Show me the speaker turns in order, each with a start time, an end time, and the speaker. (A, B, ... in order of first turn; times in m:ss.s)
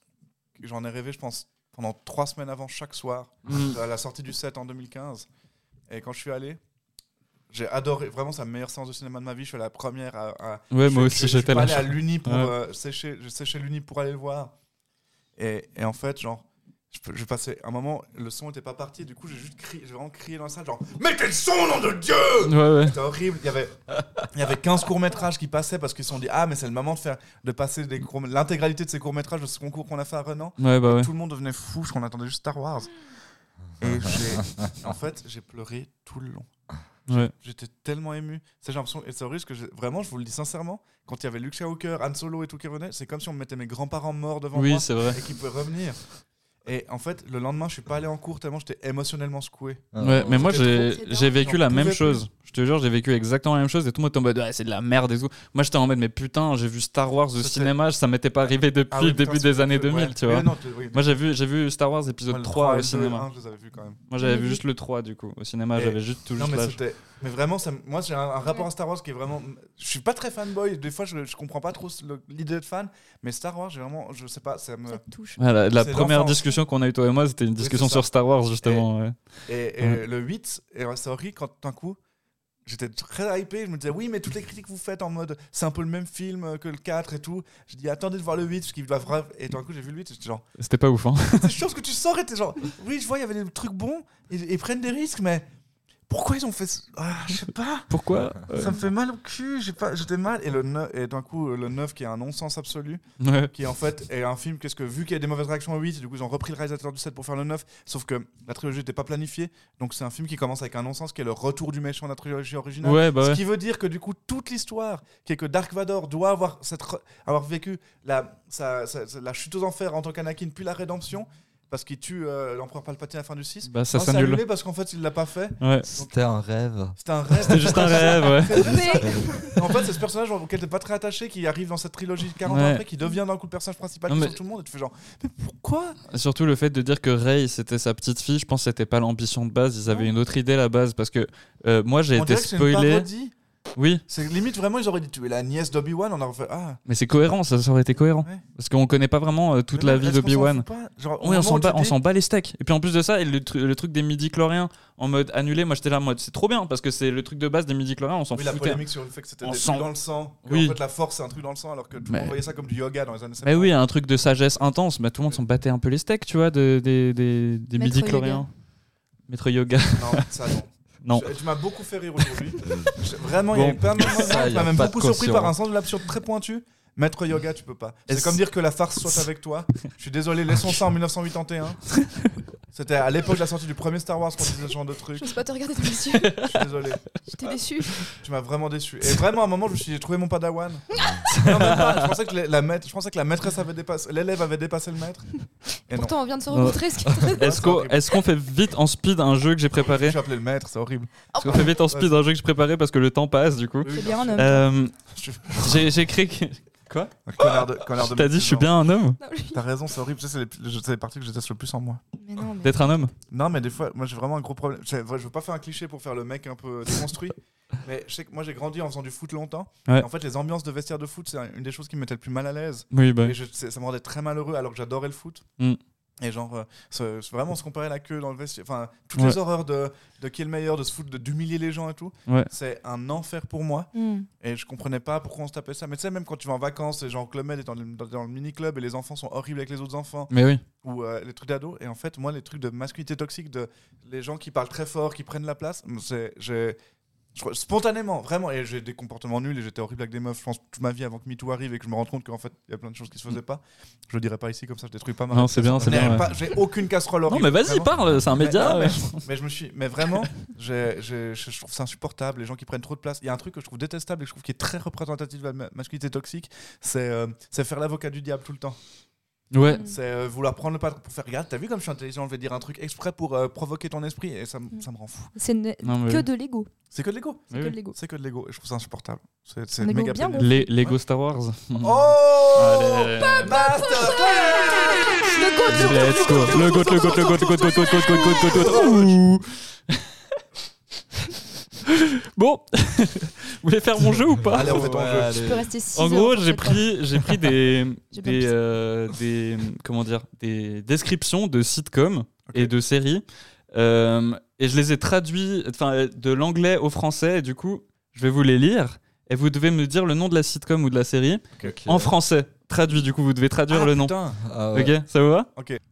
0:00.6-0:05.3 A
0:03.5-0:03.8 B
0:05.9-0:06.6 A
0:07.5-0:14.5 A
0:10.7-0:12.5 B
0:15.4-0:33.0 A
0:22.4-0:23.0 B
0:30.6-0:31.1 B
0:33.8-0:36.5 A
0:33.8-0:34.7 C
0:37.1-0:46.0 A
0:44.5-0:45.2 B
0:46.6-0:52.2 A
0:49.9-0:50.4 C
0:50.0-1:03.3 B
0:50.2-0:51.5 D
0:57.4-0:57.7 A
0:58.9-1:01.1 A
1:02.3-1:04.0 A
1:04.1-1:06.8 B
1:04.2-1:04.6 D
1:05.8-1:15.0 A
1:14.9-1:15.4 D
1:15.4-1:19.2 B
1:15.7-1:16.6 A
1:17.6-1:18.1 A
1:18.6-1:18.9 A
1:19.5-1:22.0 A
1:22.6-1:30.5 A
1:30.6-1:31.5 B
1:31.4-1:35.5 A
1:36.1-1:37.9 A
1:37.9-1:38.8 B
1:38.4-2:06.1 A
1:43.2-1:43.5 B
1:52.8-1:53.4 B
2:03.7-2:04.4 B
2:05.6-2:05.9 B
2:05.9-2:07.8 C
2:07.0-2:16.0 A
2:07.4-2:08.8 B
2:08.5-2:09.8 D
2:12.5-2:12.8 B
2:14.1-2:14.4 B
2:16.1-2:23.1 B
2:22.1-2:23.3 A
2:23.8-2:24.0 B
2:24.1-2:26.8 A
2:26.9-2:30.7 B
2:29.8-2:32.0 A
2:31.2-2:38.8 B
2:38.3-2:43.7 A
2:39.4-2:39.9 B
2:40.4-2:40.8 B
2:42.1-2:42.4 B
2:43.4-2:48.5 B
2:47.8-2:48.4 D
2:49.3-2:50.3 B
2:49.9-3:02.0 A
2:51.0-2:51.3 B
2:53.5-2:54.4 B
2:54.0-2:55.6 C
2:58.1-2:58.4 B
3:02.0-3:02.3 B
3:02.7-3:05.4 A
3:05.2-3:06.5 D
3:06.2-3:06.5 B
3:06.4-3:07.0 A
3:07.2-3:08.0 D
3:08.1-3:10.8 A
3:10.9-3:11.2 D
3:11.3-3:12.1 B
3:11.4-3:16.1 A
3:15.9-3:17.5 D
3:16.5-3:20.2 B
3:17.2-3:18.0 A
3:19.8-3:22.3 A
3:21.3-3:21.7 D
3:21.4-3:24.9 B
3:23.8-3:25.9 A
3:23.9-3:24.6 D
3:25.6-3:29.2 B
3:27.2-3:28.7 A
3:29.2-3:29.6 D
3:29.5-3:32.0 A
3:32.2-3:32.8 D
3:32.6-3:33.1 B
3:33.3-3:45.4 A
3:42.9-3:43.4 B
3:46.2-4:06.8 A
3:53.9-3:54.3 D
4:00.3-4:00.6 B
4:07.4-4:28.8 A
4:15.3-4:16.3 B
4:15.8-4:16.2 C
4:17.3-4:19.2 B
4:29.5-4:29.8 B
4:29.7-4:30.0 D
4:29.8-4:35.3 A
4:35.4-4:36.7 D
4:35.8-4:36.3 B
4:36.9-4:40.9 A
4:37.5-4:38.0 D
4:39.8-4:40.7 D
4:40.4-4:43.6 B
4:41.8-4:45.3 A
4:43.2-4:49.0 D
4:45.7-4:50.1 B
4:45.9-4:47.4 A
4:48.5-4:49.1 A
4:51.9-4:54.9 B
4:54.5-4:55.7 C
4:54.5-4:55.5 A
4:55.3-4:56.9 D
4:55.9-5:14.2 B
4:58.1-4:58.5 D
5:11.6-5:12.1 C
5:13.7-5:14.4 A
5:14.4-5:14.9 C
5:14.7-5:15.5 B
5:15.6-5:15.8 A